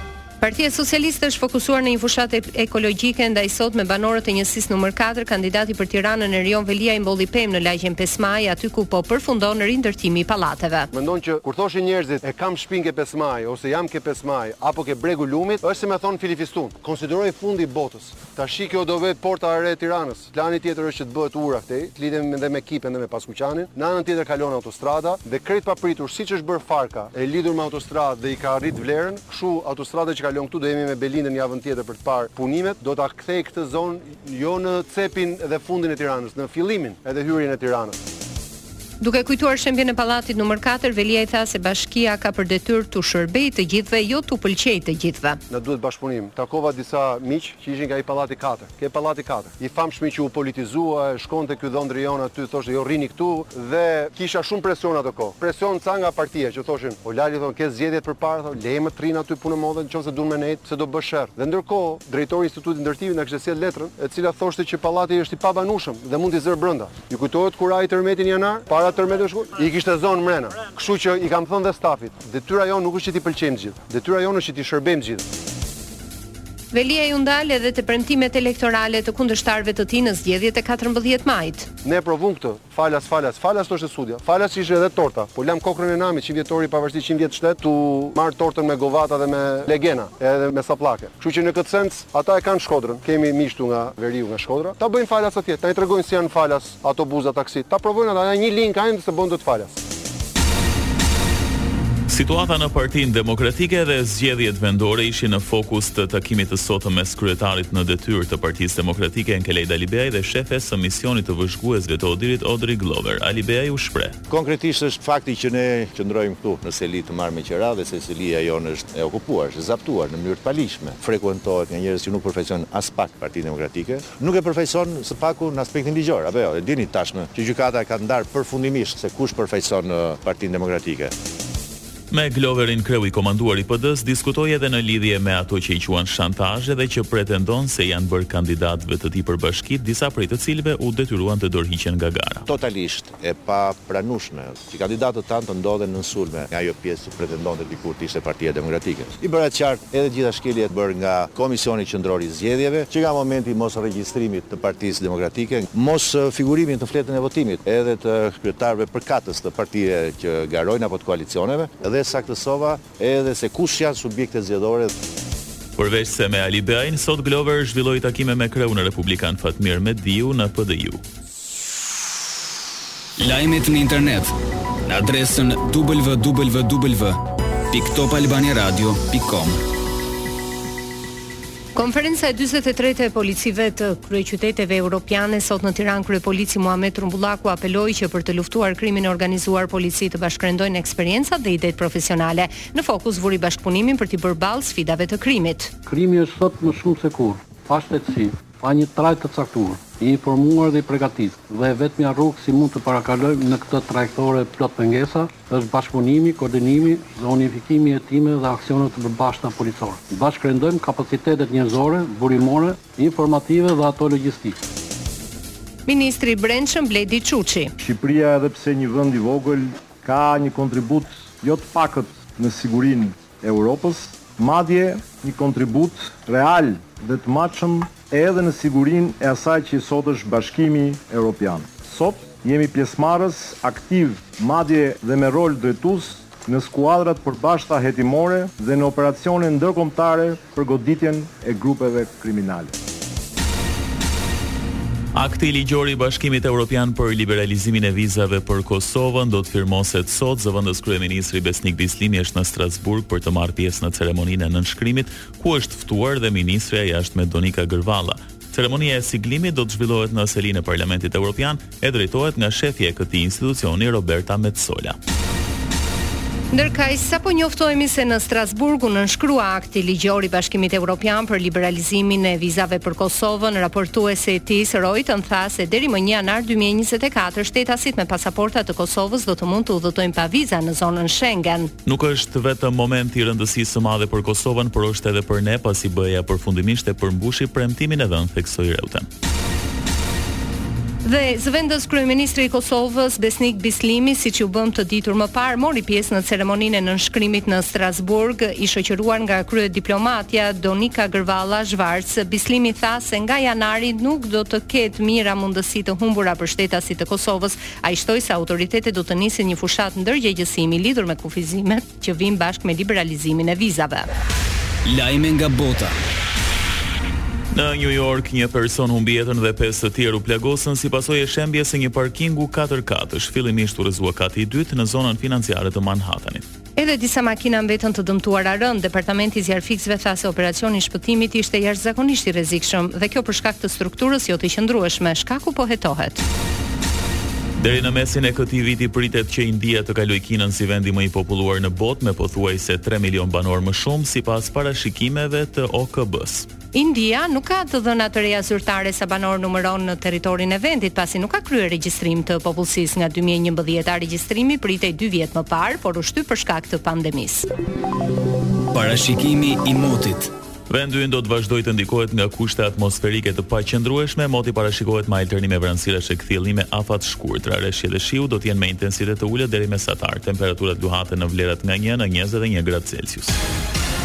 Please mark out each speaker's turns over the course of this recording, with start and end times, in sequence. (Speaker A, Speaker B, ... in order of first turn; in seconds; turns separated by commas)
Speaker A: 0.4-10.9, Speaker B: 10.9-38.0, Speaker A: 39.0-45.4, Speaker B: 45.5-75.2, Speaker A: 76.7-81.7, Speaker B: 81.8-99.8, Speaker C: 102.1-114.2, Speaker D: 114.3-131.1, Speaker C: 132.1-142.5, Speaker D: 142.5-164.9, Speaker C: 165.8-171.0, Speaker E: 173.2-174.3, Speaker E: 174.8-177.2, Speaker E: 177.7-179.6, Speaker A: 181.8-195.7, Speaker F: 195.9-214.6, Speaker A: 215.9-217.7, Speaker G: 217.8-242.7, Speaker C: 245.1-265.0, Speaker A: 266.5-281.7, Speaker C: 281.9-289.1, Speaker A: 291.0-314.1, Speaker E: 314.9-316.0, Speaker C: 317.5-326.4, Speaker A: 326.8-336.2, Speaker C: 337.6-346.5, Speaker A: 346.7-357.5, Speaker E: 358.7-360.3, Speaker C: 360.7-373.4